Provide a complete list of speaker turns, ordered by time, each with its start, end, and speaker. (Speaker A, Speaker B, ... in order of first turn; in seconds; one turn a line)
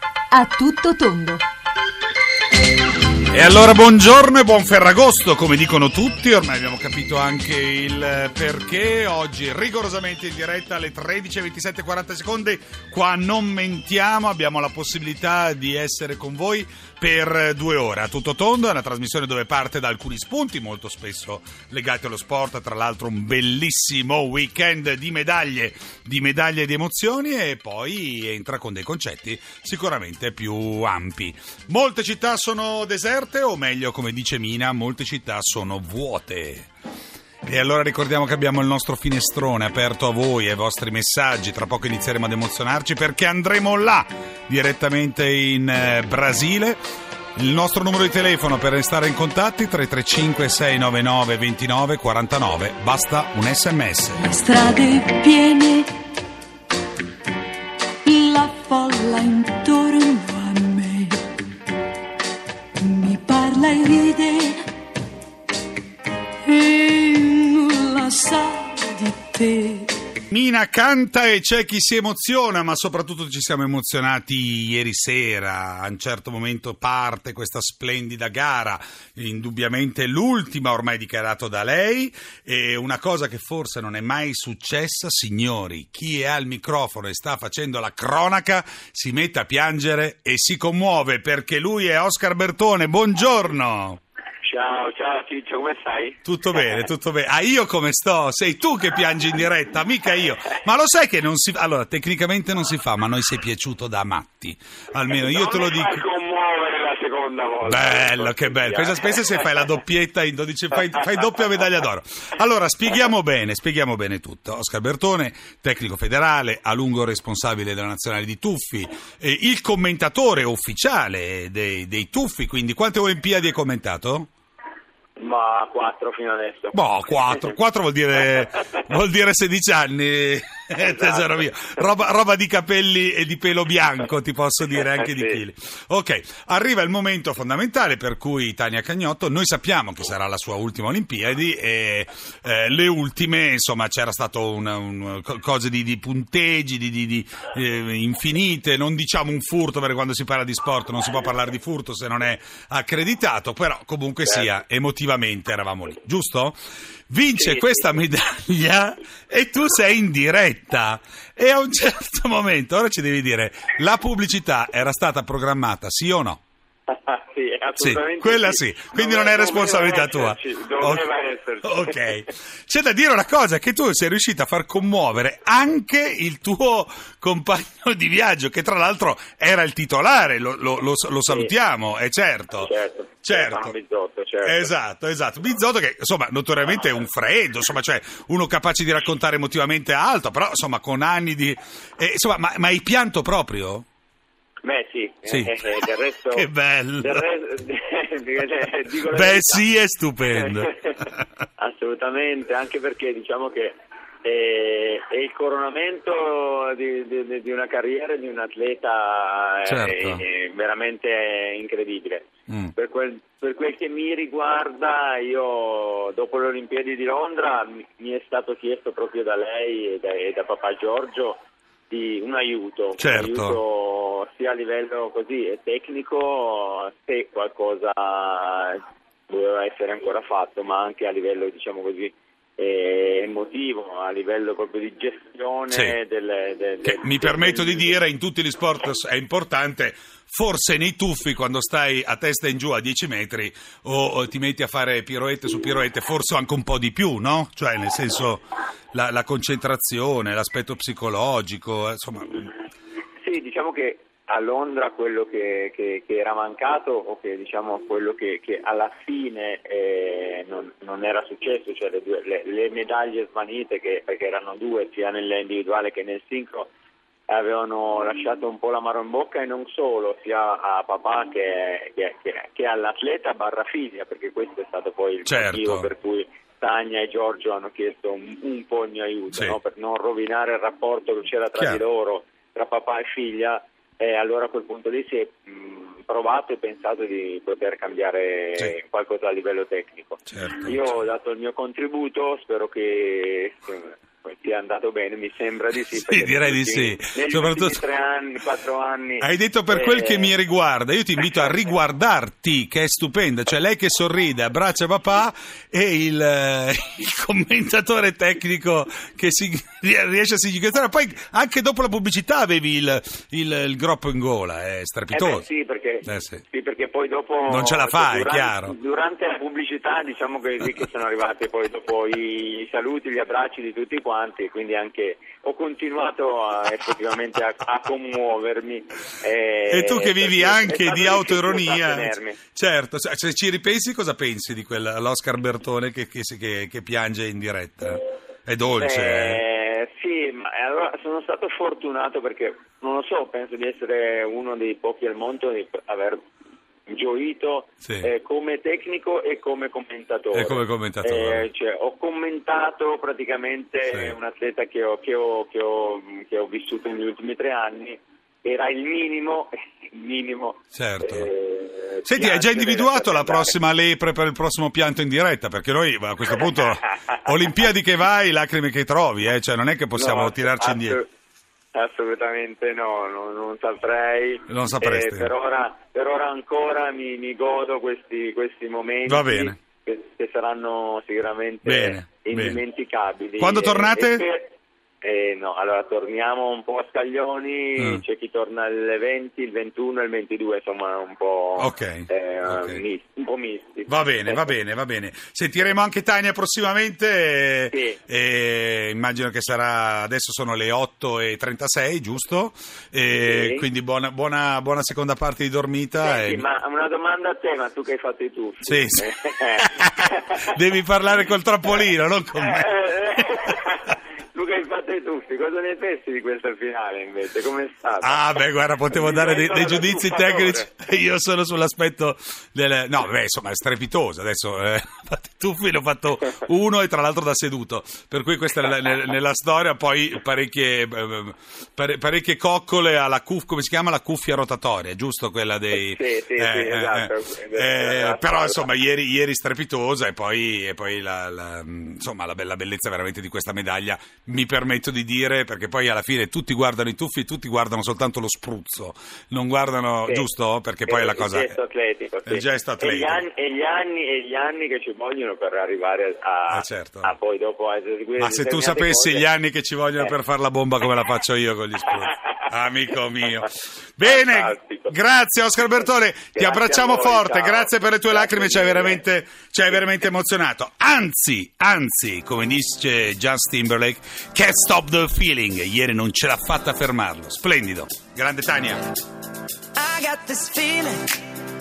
Speaker A: 0.3-1.4
Speaker B: 3.3-36.7
Speaker B: 37.4-46.8
Speaker B: 47.4-54.2
Speaker A: 54.3-55.8
Speaker C: 54.4-55.8
Speaker C: 58.0-61.0
Speaker A: 58.1-61.0
Speaker C: 62.8-64.3
Speaker A: 62.9-64.4
Speaker C: 66.5-68.5
Speaker A: 67.1-69.7
Speaker B: 70.3-94.0
Speaker D: 94.4-96.2
Speaker B: 96.2-106.0
Speaker D: 105.2-109.5
Speaker B: 107.6-124.3
Speaker D: 125.2-126.8
Speaker B: 126.7-156.6
Speaker D: 130.8-131.2
Speaker D: 135.0-135.4
Speaker B: 157.1-166.4
Speaker D: 157.4-157.8
Speaker D: 166.9-172.1
Speaker B: 167.8-171.1
Speaker B: 171.6-182.7
Speaker D: 182.6-184.7
Speaker B: 183.2-183.7
Speaker B: 184.4-193.8
Speaker D: 194.6-196.5
Speaker B: 195.2-195.8
Speaker B: 196.3-197.2
Speaker D: 197.0-199.6
Speaker B: 199.1-200.7
Speaker D: 200.3-201.0
Speaker D: 201.6-221.4
Speaker B: 209.6-210.2
Speaker B: 212.5-212.7
Speaker D: 221.9-237.9
Speaker B: 223.0-223.6
Speaker B: 235.7-236.0
Speaker B: 236.8-252.5
Speaker D: 253.2-266.7
Speaker D: 267.3-300.3
Speaker B: 275.2-275.9
Speaker B: 279.3-279.6
Speaker B: 281.5-281.8
Speaker B: 290.3-290.9
Speaker B: 295.9-297.8
Speaker B: 299.2-315.4
Speaker D: 315.1-332.4
Speaker B: 316.0-316.4
Speaker B: 317.5-318.7
Speaker B: 329.7-339.4
Speaker D: 338.8-346.2
Speaker D: 346.9-363.6
Speaker B: 347.8-348.1
Speaker B: 350.3-351.5
Speaker B: 353.9-354.2
Speaker B: 360.7-361.3
Speaker B: 362.0-371.0
Speaker D: 369.9-371.1
Speaker D: 371.7-394.5
Speaker B: 374.5-375.3
Speaker B: 379.1-379.6
Speaker B: 381.6-382.6
Speaker B: 383.4-384.2
Speaker B: 387.8-388.0
Speaker B: 391.6-392.8
Speaker B: 393.9-406.4
Speaker D: 397.7-398.0
Speaker D: 403.2-403.6
Speaker D: 406.0-410.4
Speaker B: 408.6-413.2
Speaker D: 412.4-418.2
Speaker B: 418.0-451.5
Speaker D: 418.9-420.6
Speaker D: 435.7-438.6
Speaker D: 450.9-459.2
Speaker B: 452.2-453.2
Speaker B: 456.5-457.1
Speaker B: 458.2-478.8
Speaker D: 464.0-464.9
Speaker D: 466.3-469.0
Speaker C: 479.8-481.1